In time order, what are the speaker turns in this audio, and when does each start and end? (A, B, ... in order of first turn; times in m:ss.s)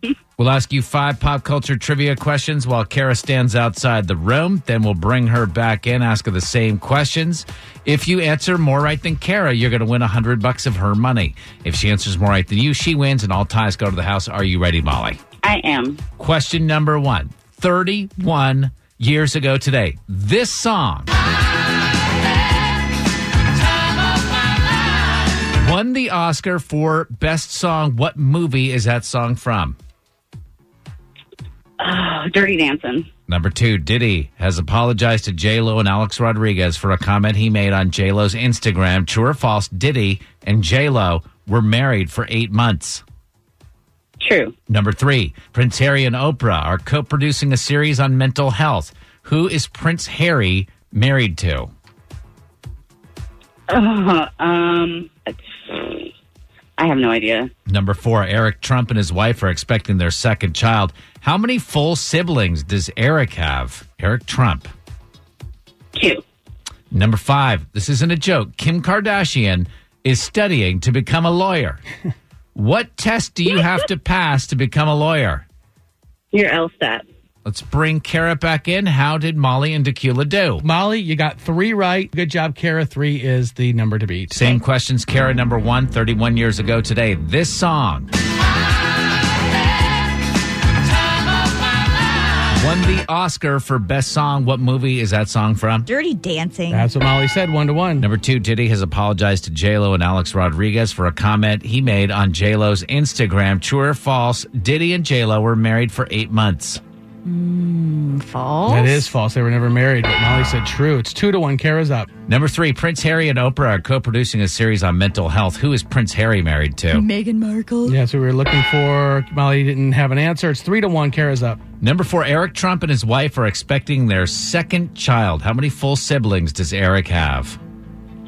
0:00.4-0:15.2 A
0:15.4-0:16.0 B
0:16.2-0:21.1 A
0:25.6-0:29.8 A
0:31.8-0:33.1 B
0:33.3-0:43.0 A
0:44.2-0:44.5 B
0:44.7-0:51.7 A
0:53.7-0:56.1 B
0:56.8-0:57.5 B
0:57.7-1:04.7 A
1:05.9-1:06.2 B
1:06.9-1:11.8 A
1:12.5-1:15.4 A
1:16.3-1:17.0 B
1:17.4-1:20.6 A
1:20.6-1:24.6 C
1:24.3-1:28.1 A
1:32.5-1:35.9 A
1:35.8-1:36.9 D
1:36.7-1:38.1 C
1:38.0-1:46.8 A
1:47.2-1:49.1 D
1:48.7-1:52.1 C
1:52.3-1:57.0 A
1:56.9-1:58.0 D
1:57.9-2:01.6 C
2:01.8-2:07.6 A